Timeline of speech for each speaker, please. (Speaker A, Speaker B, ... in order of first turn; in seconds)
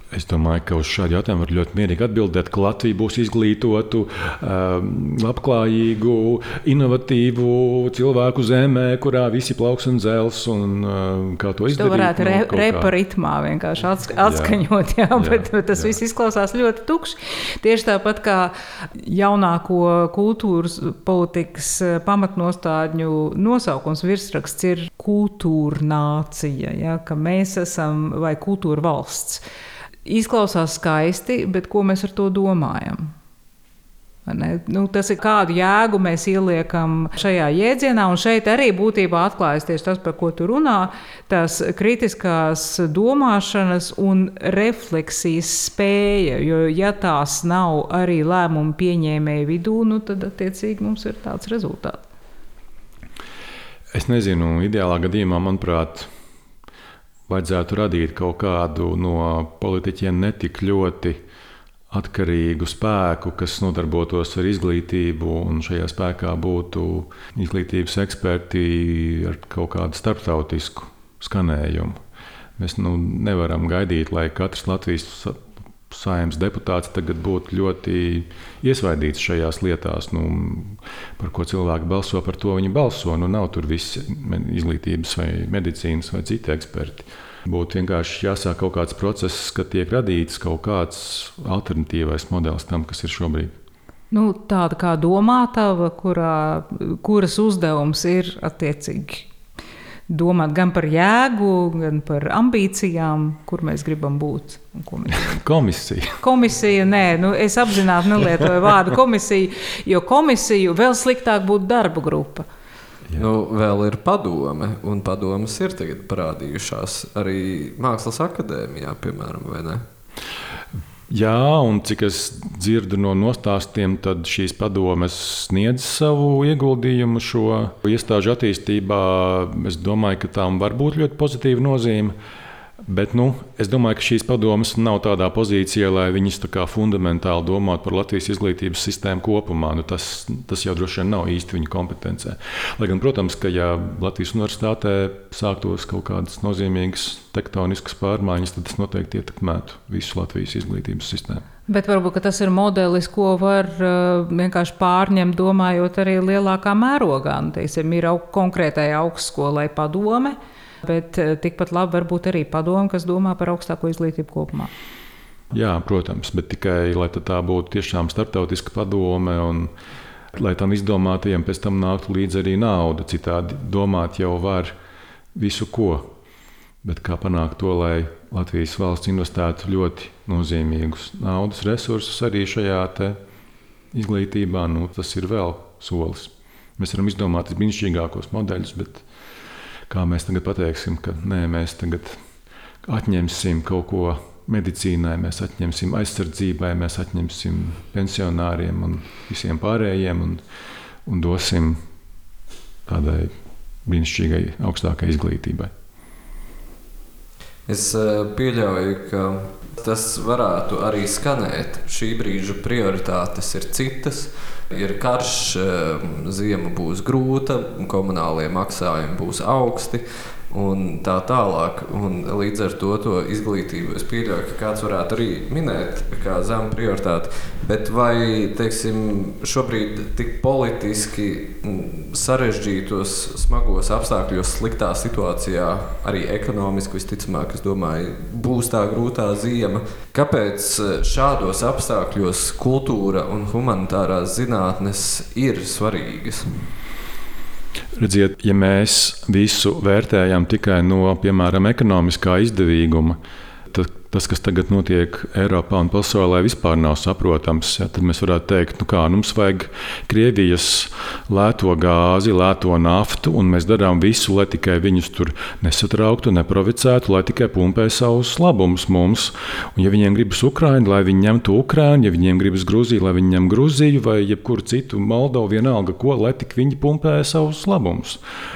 Speaker A: 0.1-12.9, 14.2-14.6, 15.2-16.0, 53.9-56.1, 57.3-61.2, 61.9-72.0, 72.6-93.5, 105.1-106.2, 121.1-132.2, 132.8-151.4, 165.5-169.7, 170.3-174.8, 175.4-176.1, 176.8-183.2, 183.9-189.0, 189.9-192.2, 192.8-200.4, 201.1-201.8, 202.9-203.3, 203.8-205.7, 248.0-253.2, 253.7-278.2
Speaker B: 11.7-29.4, 30.1-33.1, 34.3-52.0, 94.1-99.3, 100.1-105.4, 106.2-112.5, 151.7-164.7
Speaker C: 113.2-119.8, 207.7-246.7